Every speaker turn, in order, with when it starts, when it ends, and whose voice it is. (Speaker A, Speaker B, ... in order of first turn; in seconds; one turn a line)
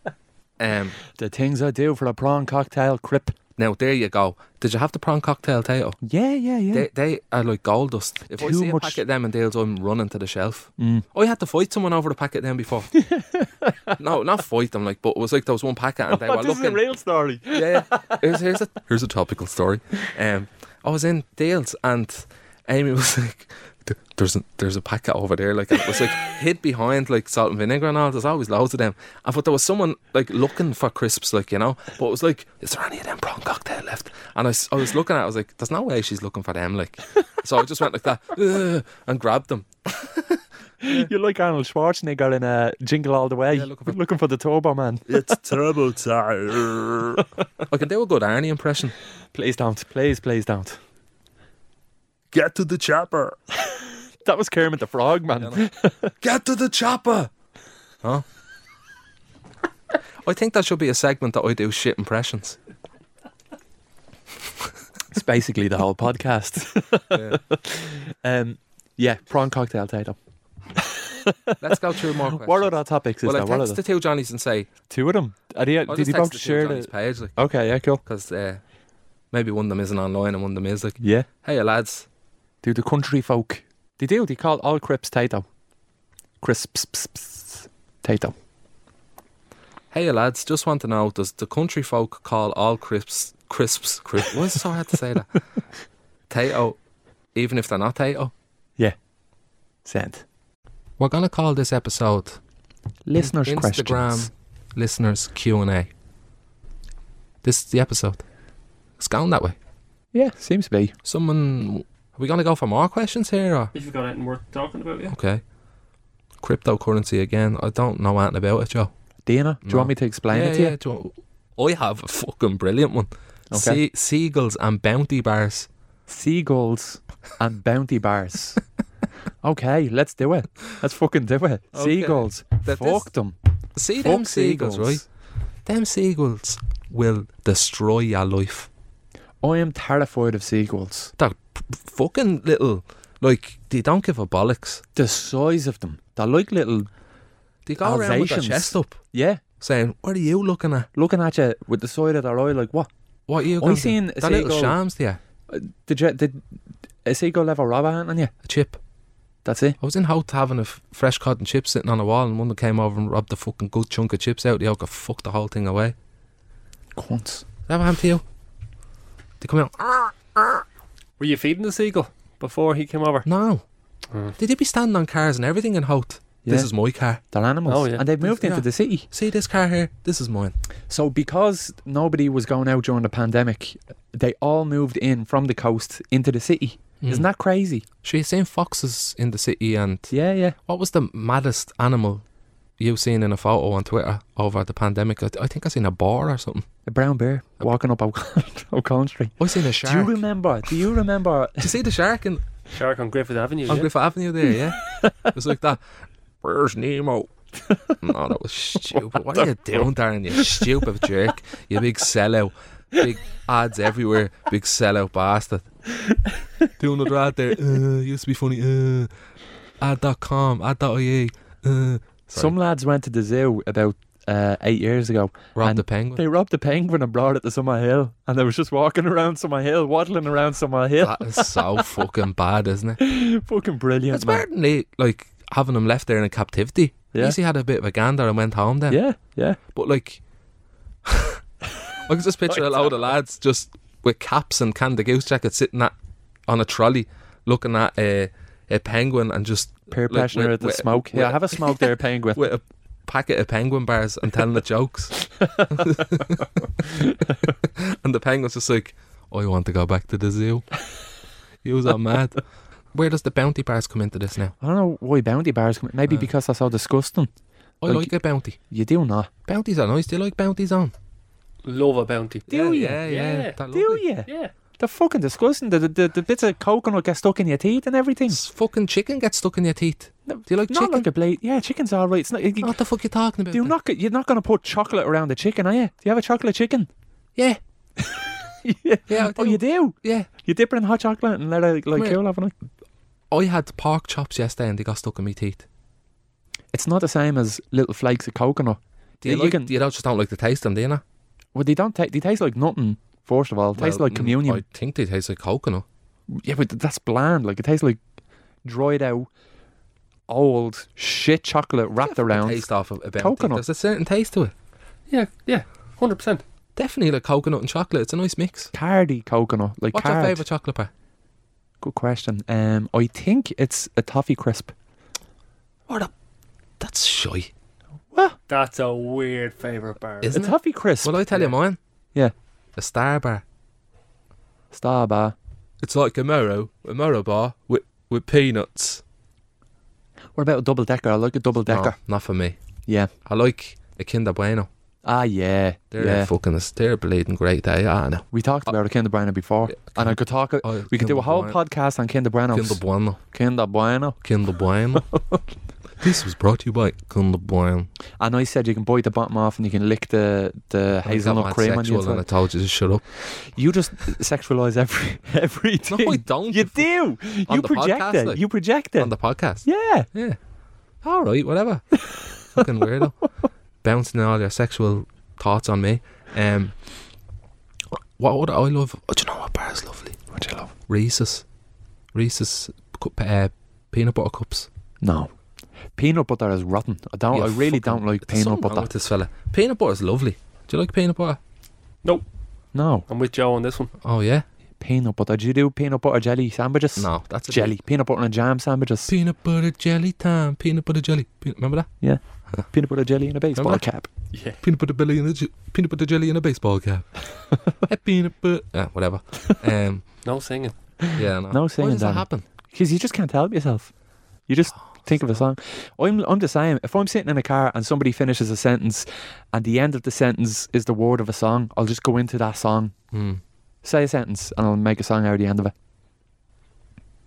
Speaker A: 0.6-1.0
Speaker B: 1.2-3.4
Speaker A: 3.6-6.0
Speaker B: 6.0-6.9
Speaker A: 6.7-12.9
Speaker B: 8.3-9.0
Speaker B: 10.8-11.1
Speaker B: 13.1-13.9
Speaker A: 13.9-16.8
Speaker B: 16.1-18.4
Speaker A: 17.5-41.1
Speaker B: 40.8-45.4
Speaker A: 43.5-44.0
Speaker A: 45.1-49.0
Speaker B: 49.3-50.8
Speaker A: 52.3-53.4
Speaker B: 53.7-56.1
Speaker A: 55.4-55.6
Speaker A: 56.2-57.3
Speaker A: 60.2-62.6
Speaker B: 65.1-70.2
Speaker A: 67.1-67.4
Speaker B: 70.8-73.8
Speaker A: 71.6-74.7
Speaker B: 74.9-78.0
Speaker A: 75.9-77.4
Speaker A: 78.0-78.6
Speaker A: 79.3-82.1
Speaker B: 81.0-81.3
Speaker B: 82.6-85.5
Speaker B: 86.4-88.3
Speaker A: 89.9-95.4
Speaker A: 96.3-96.8
Speaker A: 97.3-98.3
Speaker B: 99.8-100.2
Speaker A: 101.0-102.4
Speaker B: 103.1-104.3
Speaker A: 103.2-105.9
Speaker A: 107.4-108.2
Speaker A: 109.0-109.6
Speaker B: 110.1-111.0
Speaker A: 111.0-113.7
Speaker C: 113.7-115.2
Speaker A: 115.1-115.4
Speaker A: 116.4-118.9
Speaker B: 119.3-120.8
Speaker A: 119.6-125.7
Speaker B: 123.5-123.8
Speaker B: 126.1-128.6
Speaker B: 129.4-133.4
Speaker A: 131.8-133.1
Speaker A: 133.8-135.0
Speaker B: 134.0-135.1
Speaker A: 135.7-138.7
Speaker B: 139.4-141.1
Speaker A: 141.2-144.8
Speaker B: 144.9-146.9
Speaker A: 147.7-149.0
Speaker B: 147.8-149.4
Speaker A: 149.6-150.9
Speaker B: 150.9-152.9
Speaker A: 153.3-155.2
Speaker B: 153.6-154.8
Speaker B: 155.5-156.4
Speaker B: 157.1-158.3
Speaker A: 158.4-158.8
Speaker B: 159.4-159.8
Speaker A: 159.8-165.9
Speaker B: 167.0-167.4
Speaker A: 167.7-168.2
Speaker A: 169.4-170.6
Speaker C: 171.2-173.3
Speaker A: 173.3-173.6
Speaker A: 174.4-177.2
Speaker B: 176.4-176.7
Speaker B: 177.3-179.1
Speaker C: 177.7-178.1
Speaker A: 178.2-180.6
Speaker B: 180.9-187.8
Speaker A: 187.0-187.3
Speaker A: 188.0-190.1
Speaker B: 190.1-190.6
Speaker A: 190.7-192.2
Speaker A: 192.8-196.7
Speaker B: 196.9-201.7
Speaker A: 199.4-200.2
Speaker A: 201.6-202.4
Speaker C: 202.7-203.9
Speaker A: 203.7-205.8
Speaker A: 206.4-207.3
Speaker A: 208.0-215.7
Speaker A: 216.8-219.1
Speaker A: 219.8-222.6
Speaker B: 222.3-231.8
Speaker A: 225.6-226.2
Speaker A: 231.0-233.0
Speaker B: 233.0-234.5
Speaker A: 234.1-239.0
Speaker B: 238.9-239.6
Speaker A: 239.7-240.2
Speaker A: 241.1-241.4
Speaker A: 242.0-245.9
Speaker A: 246.5-257.0
Speaker B: 249.9-252.4
Speaker A: 257.5-260.7
Speaker A: 261.6-262.4
Speaker A: 262.9-264.6
Speaker B: 264.6-267.3
Speaker A: 267.8-268.6
Speaker B: 267.9-268.1
Speaker B: 268.7-269.3
Speaker A: 269.5-270.9
Speaker C: 271.6-273.6
Speaker A: 272.5-274.0
Speaker B: 272.5-273.0
Speaker B: 273.7-278.4
Speaker C: 274.3-274.5
Speaker A: 278.3-281.1
Speaker B: 280.3-282.8
Speaker A: 282.6-283.8
Speaker B: 283.5-286.9
Speaker B: 288.0-292.5
Speaker A: 289.1-290.3
Speaker A: 291.9-292.2
Speaker A: 293.3-295.6
Speaker B: 296.7-299.7
Speaker A: 299.2-301.0
Speaker B: 301.6-304.6
Speaker A: 303.8-305.9
Speaker B: 306.3-308.0
Speaker B: 308.6-309.3
Speaker B: 310.3-313.6
Speaker A: 312.1-314.5
Speaker C: 315.1-316.4
Speaker A: 316.8-318.7
Speaker B: 318.7-320.4
Speaker A: 319.9-320.9
Speaker B: 321.8-324.7
Speaker A: 326.8-327.5
Speaker C: 328.5-330.4
Speaker A: 330.2-331.8
Speaker B: 330.3-331.2
Speaker A: 332.8-333.4
Speaker B: 334.7-335.4
Speaker A: 335.8-339.0
Speaker B: 340.4-342.0
Speaker A: 341.7-342.6
Speaker A: 343.2-344.7
Speaker B: 345.1-346.3
Speaker A: 345.9-348.3
Speaker B: 348.3-354.2
Speaker A: 349.7-351.6
Speaker A: 352.5-353.2
Speaker A: 354.2-355.1
Speaker A: 356.0-357.9
Speaker B: 358.2-362.2
Speaker A: 361.0-363.0
Speaker B: 363.2-370.1
Speaker A: 365.9-366.9
Speaker A: 367.4-368.4
Speaker A: 369.0-370.4
Speaker A: 371.0-373.2
Speaker A: 373.8-376.8
Speaker A: 377.9-380.2
Speaker B: 380.3-380.7
Speaker A: 380.9-381.4
Speaker A: 382.1-384.7
Speaker B: 385.0-385.3
Speaker B: 386.0-388.9
Speaker A: 387.3-391.4
Speaker B: 392.7-393.1
Speaker C: 393.1-393.9
Speaker A: 394.0-394.4
Speaker B: 394.8-399.1
Speaker A: 397.0-397.7
Speaker A: 399.1-401.9
Speaker B: 402.0-404.1
Speaker A: 403.6-403.8
Speaker C: 404.3-404.6
Speaker A: 404.6-410.1
Speaker C: 410.2-410.8
Speaker B: 411.1-413.9
Speaker A: 411.2-412.5
Speaker B: 414.5-422.9
Speaker A: 423.1-423.4
Speaker B: 423.8-425.7